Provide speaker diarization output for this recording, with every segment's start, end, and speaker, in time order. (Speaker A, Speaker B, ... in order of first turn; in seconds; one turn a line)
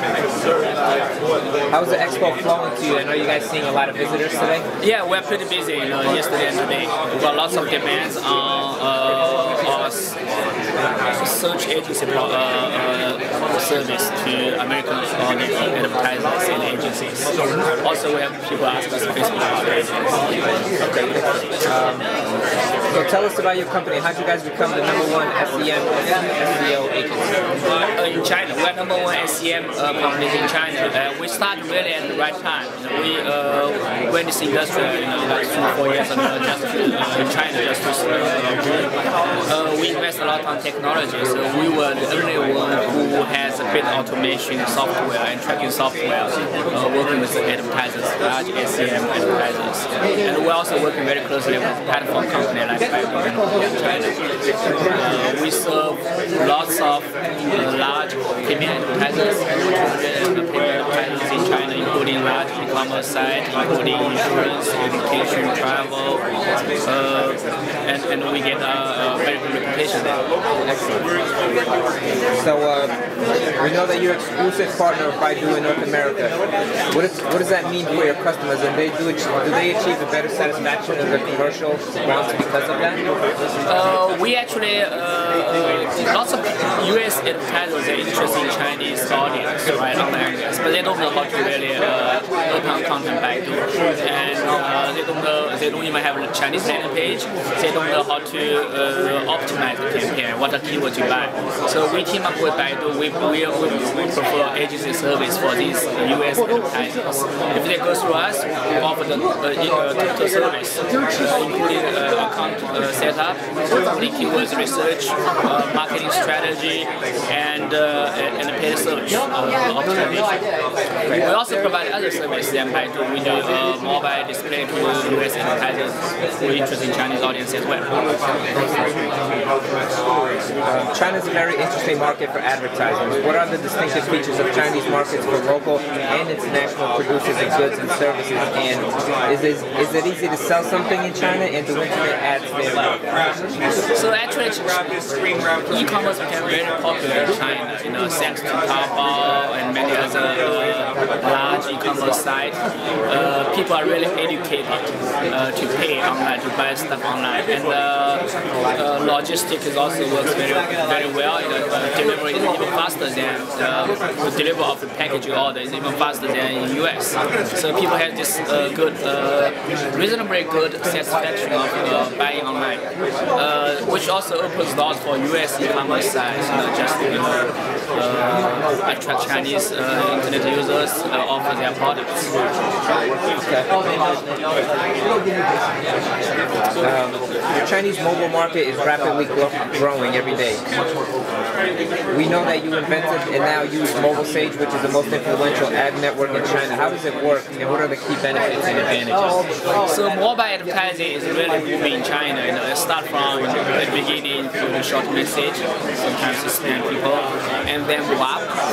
Speaker A: 1.7-4.6
Speaker B: 4.8-10.1
Speaker B: 11.1-17.3
Speaker B: 17.8-20.1
Speaker A: 20.8-22.1
Speaker A: 22.9-27.3
Speaker B: 27.9-38.6
Speaker B: 39.5-54.1
Speaker B: 54.9-66.2
Speaker B: 66.8-70.2
Speaker A: 70.6-71.1
Speaker A: 72.4-73.0
Speaker A: 73.6-76.4
Speaker A: 76.9-83.0
Speaker B: 83.6-120.4
Speaker B: 121.1-128.0
Speaker A: 130.6-143.0
Speaker B: 143.9-144.8
Speaker B: 145.7-172.8
Speaker B: 173.3-182.3
Speaker A: 183.4-183.7
Speaker A: 186.8-190.6
Speaker A: 192.1-199.5
Speaker B: 199.8-208.5